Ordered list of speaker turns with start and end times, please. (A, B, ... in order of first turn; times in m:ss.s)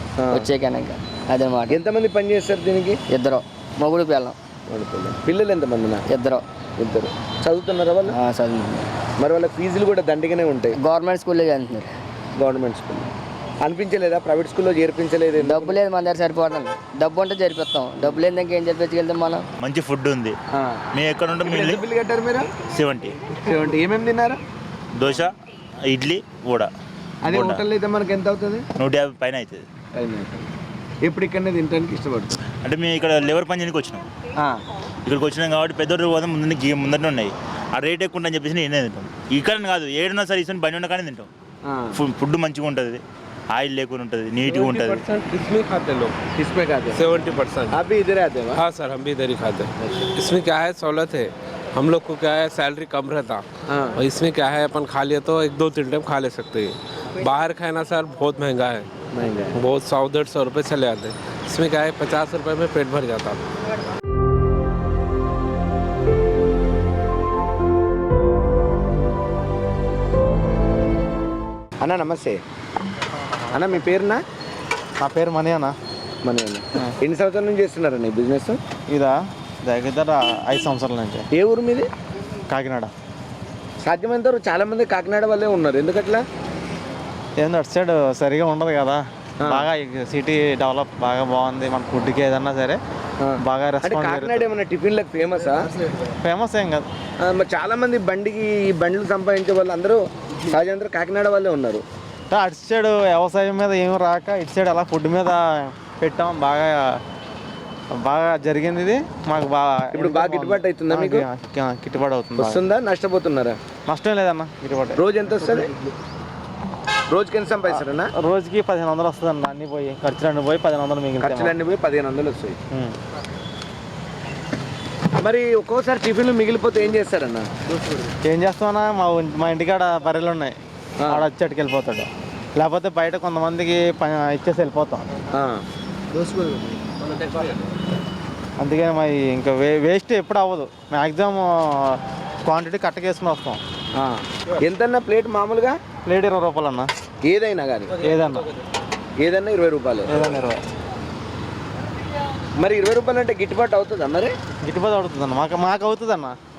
0:00.2-0:00.5 A
0:00.3-0:01.8 B
0:01.7-0:03.0 A
0:03.1-0:04.4 B
0:04.7-0:06.0 A
0:06.1-0:06.4 B
0:06.8-0:08.2 A
0:08.1-0:08.9 B
0:09.2-0:10.8 A
0:10.8-0:11.9 B
0:12.4-0:13.1 A
0:13.6-0:15.8 A
0:15.4-0:19.4 B
0:19.6-0:20.4 C
0:20.5-0:20.8 A
0:20.9-0:21.8 C
0:21.5-0:22.5 A
0:22.6-0:23.2 C
0:23.4-0:24.4 A
0:25.0-0:25.3 C
0:25.9-0:26.7 C
0:27.2-0:28.6 A
0:27.3-0:27.6 C
0:28.8-0:29.6 C
0:30.0-0:30.5 A
0:31.0-0:32.4 A
0:32.5-0:34.0 C
0:34.4-0:34.6 A
0:35.1-0:41.3 C
0:41.6-0:42.0 A
0:42.0-0:43.0 C
0:43.5-0:45.0 C
0:44.4-0:46.1 D
0:46.4-0:47.0 A
0:46.9-0:47.8 D
0:47.7-0:48.6 A
0:48.5-0:58.9 D
0:59.1-0:59.5 A
0:59.5-1:03.4 D
1:11.8-1:12.4 A
1:13.2-1:13.8 E
1:13.5-1:14.2 A
1:15.0-1:15.8 E
1:16.2-1:18.6 A
1:18.9-1:21.2 E
1:21.3-1:21.9 A
1:22.5-1:22.9 E
1:23.8-1:26.2 A
1:27.4-1:32.8 E
1:29.4-1:29.7 A
1:33.2-1:35.7 A
1:33.4-1:34.5 E
1:36.2-1:36.8 E
1:37.2-1:41.8 A
1:42.3-1:47.0 E
1:48.0-1:52.6 E
1:49.9-1:51.2 A
1:52.4-1:53.6 A
1:53.9-1:55.0 E
1:55.0-1:55.7 A
1:57.1-1:58.1 A
1:57.7-2:01.5 E
2:01.2-2:02.6 A
2:02.7-2:03.0 E
2:05.2-2:07.5 A
2:08.2-2:10.5 E
2:11.0-2:11.2 A
2:11.1-2:15.0 E
2:15.3-2:15.6 A
2:18.6-2:23.6 E
2:24.0-2:25.8 A
2:26.1-2:26.9 E
2:27.2-2:28.0 A
2:28.0-2:28.5 E
2:29.2-2:30.2 A
2:30.1-2:30.6 E
2:32.6-2:34.3 A
2:34.6-2:36.4 E